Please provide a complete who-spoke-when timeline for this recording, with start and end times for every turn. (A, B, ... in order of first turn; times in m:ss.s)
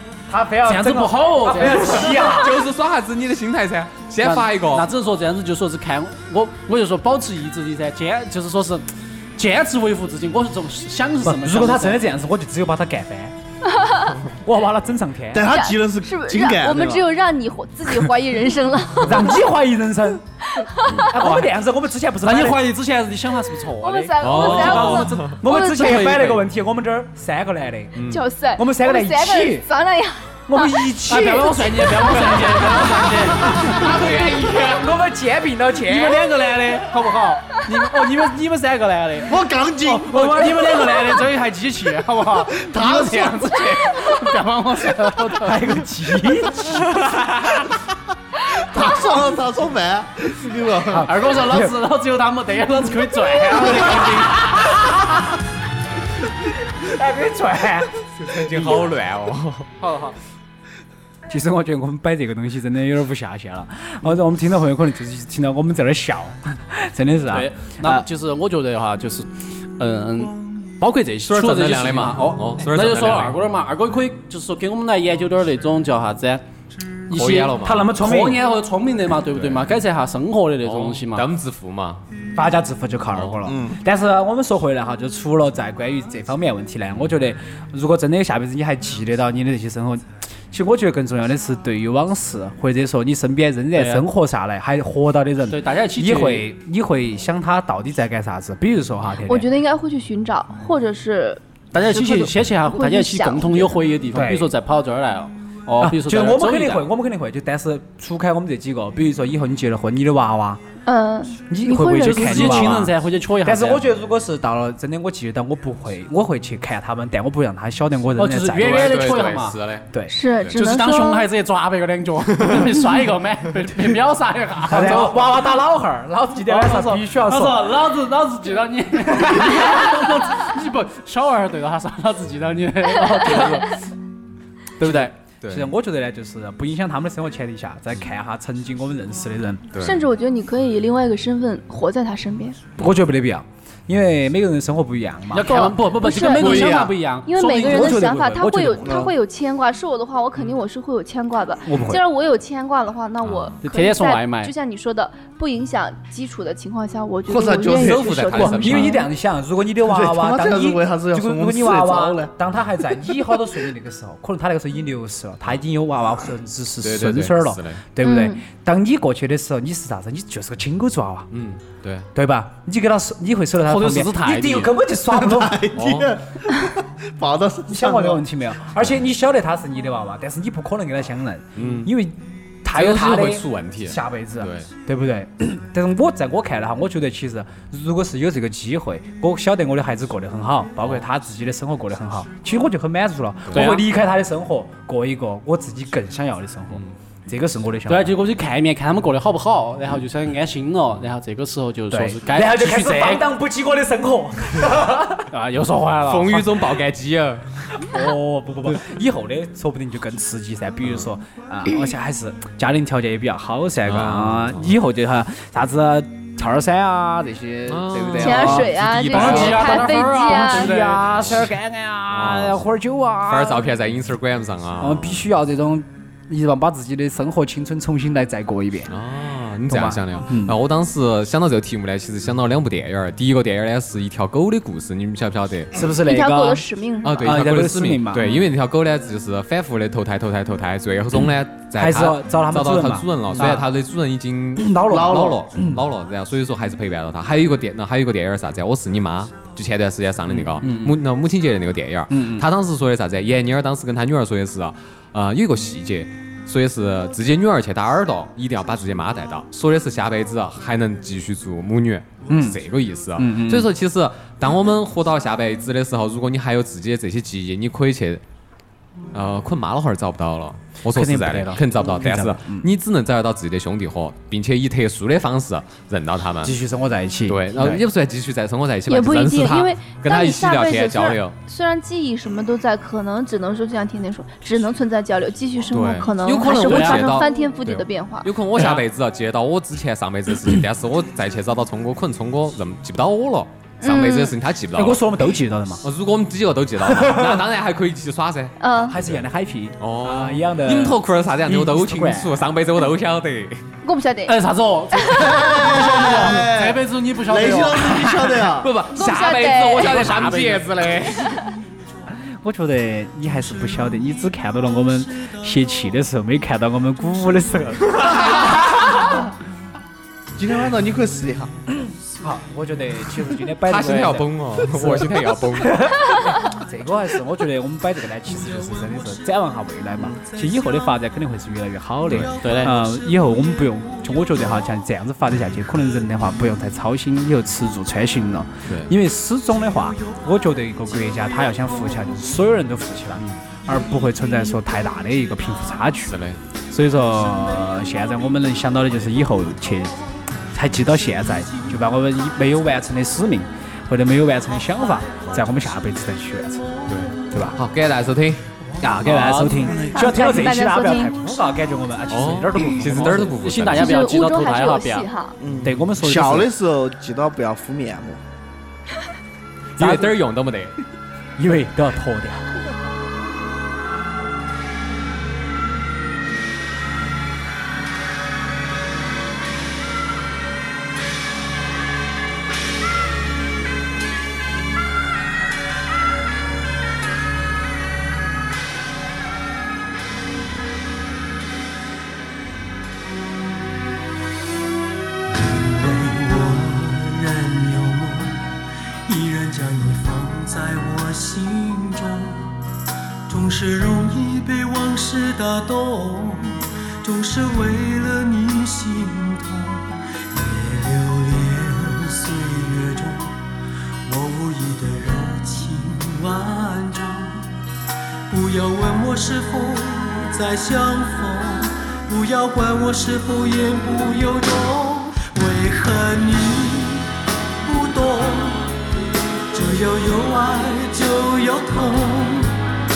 0:00.3-0:02.6 A
0:00.6-0:02.3 B
0:02.1-0:04.9 C
0:04.2-0:12.0 B
0:11.2-0:13.4 A
0:13.7-0:14.2 D
0:14.4-0:15.5 A
0:15.3-0:17.1 E
0:15.5-0:19.2 D
0:19.0-0:20.2 A
0:20.5-0:21.2 D
0:21.1-0:22.7 A
0:22.2-0:26.4 B
0:23.8-0:25.9 D
0:24.2-0:25.4 C
0:24.4-0:28.0 A
0:28.0-0:28.2 C
0:28.1-0:32.3 D
0:28.6-0:29.7 A
0:30.5-0:33.8 A
0:31.1-0:34.0 B
0:33.6-0:34.9 C
0:34.6-0:37.4 A
0:35.8-0:39.4 B
0:39.3-0:40.8 E
0:39.8-0:41.3 A
0:40.1-0:45.6 B
0:42.6-0:43.8 E
0:45.3-0:47.0 A
0:46.9-0:47.6 C
0:48.4-0:51.1 E
0:50.9-0:51.8 A
0:51.0-0:54.6 B
0:53.8-0:54.1 E
0:54.5-0:55.2 A
0:56.8-0:58.8 A
0:58.2-0:59.7 C
0:59.8-1:00.2 B
1:01.3-1:08.1 A
1:07.3-1:16.4 B
1:11.3-1:13.4 C
1:17.1-1:21.3 B
1:17.1-1:17.9 C
1:17.5-1:18.5 A
1:19.3-1:19.6 C
1:20.6-1:22.0 C
1:22.4-1:39.5 A
1:23.1-1:23.4 C
1:23.5-1:23.8 E
1:33.8-1:34.0 B
1:35.5-1:36.5 B
1:39.3-1:42.1 D
1:41.7-1:46.9 B
1:42.6-1:43.8 D
1:44.1-1:44.5 A
1:45.8-1:50.6 A
1:50.9-1:52.7 D
1:51.5-1:59.4 A
1:52.0-1:53.9 B
1:58.2-1:59.6 B
1:58.6-1:59.9 C
1:59.9-2:00.2 A
2:00.1-2:01.3 D
2:00.5-2:05.3 B
2:04.7-2:07.7 A
2:06.4-2:13.8 B
2:09.1-2:09.6 A
2:14.8-2:15.1 B
2:14.8-2:19.7 A
2:14.9-2:15.7 C
2:19.7-2:20.0 C
2:19.8-2:22.7 D
2:22.8-2:25.7 A
2:25.3-2:28.1 B
2:25.5-2:39.1 D
2:26.3-2:27.0 E
2:27.4-2:29.1 A
2:28.8-2:29.1 E
2:31.7-2:32.0 A
2:33.2-2:33.6 C
2:33.6-2:34.5 B
2:37.3-2:38.7 E
2:37.6-2:39.0 C
2:38.4-2:51.3 A
2:39.8-2:42.3 E
2:46.8-2:47.8 C
2:48.0-2:48.4 D
2:51.3-2:52.1 C
2:52.1-2:55.6 A
2:53.6-2:54.7 B
2:55.1-2:58.2 E
2:55.8-2:56.1 C
2:57.7-3:18.2 A
3:01.6-3:01.9 C
3:02.7-3:04.7 C
3:10.8-3:11.1 C
3:13.5-3:13.8 B
3:17.9-3:23.2 B
3:21.9-3:25.3 A
3:25.3-3:26.7 B
3:26.0-3:27.9 C
3:27.8-3:43.7 A
3:33.9-3:34.7 C
3:37.7-3:39.8 C
3:38.2-3:40.8 D
3:39.0-3:41.3 B
3:41.1-3:41.5 C
3:42.1-3:42.7 C
3:43.3-3:45.3 C
3:44.8-3:48.9 A
3:48.9-3:55.9 C
3:49.7-3:50.6 A
3:55.7-3:58.4 A
3:56.0-3:57.2 D
3:57.0-4:28.2 C
4:01.7-4:03.7 A
4:04.6-4:05.8 A
4:04.9-4:05.4 E
4:10.4-4:11.0 A
4:12.1-4:12.5 A
4:22.3-4:22.6 A
4:23.2-4:23.7 A
4:29.1-4:36.6 C
4:30.8-4:32.7 A
4:36.4-4:37.8 A
4:37.3-4:41.4 C
4:38.9-4:48.3 D
4:45.7-4:55.0 C
4:46.5-4:47.2 B
4:53.8-4:54.4 D
4:54.7-4:55.8 A
4:55.8-4:59.2 C
4:56.8-4:57.4 A
4:58.6-4:59.0 D
4:58.8-5:02.4 A
4:59.8-5:03.6 C
5:03.8-5:05.4 D
5:04.3-5:08.4 B
5:05.3-5:08.7 E
5:08.6-5:11.5 C
5:08.9-5:10.2 D
5:09.8-5:10.7 B
5:12.4-5:18.6 A
5:17.7-5:19.2 C
5:20.4-5:21.5 E
5:21.8-5:46.2 A
5:23.6-5:25.9 C
5:32.0-5:32.4 C
5:32.3-5:33.3 F
5:32.4-5:32.8 B
5:38.7-5:38.9 C
5:41.7-5:42.1 F
5:43.2-5:43.4 C
5:46.1-5:46.4 C
5:46.7-5:56.7 A
5:55.1-5:55.4 F
5:56.9-5:59.8 C
5:57.1-5:57.4 F
5:57.3-5:57.6 A
5:58.8-6:03.4 A
5:59.7-6:00.0 F
5:59.8-6:01.2 D
6:02.1-6:04.1 C
6:02.8-6:05.1 B
6:03.7-6:05.4 D
6:05.4-6:08.2 E
6:05.6-6:06.5 A
6:09.8-6:10.7 C
6:09.8-6:10.1 A
6:11.4-6:12.6 A
6:35.3-6:42.5 F
6:43.3-6:53.4 F
6:54.0-6:57.5 F
6:58.3-7:07.1 F
7:07.6-7:08.7 F
7:09.5-7:12.6 F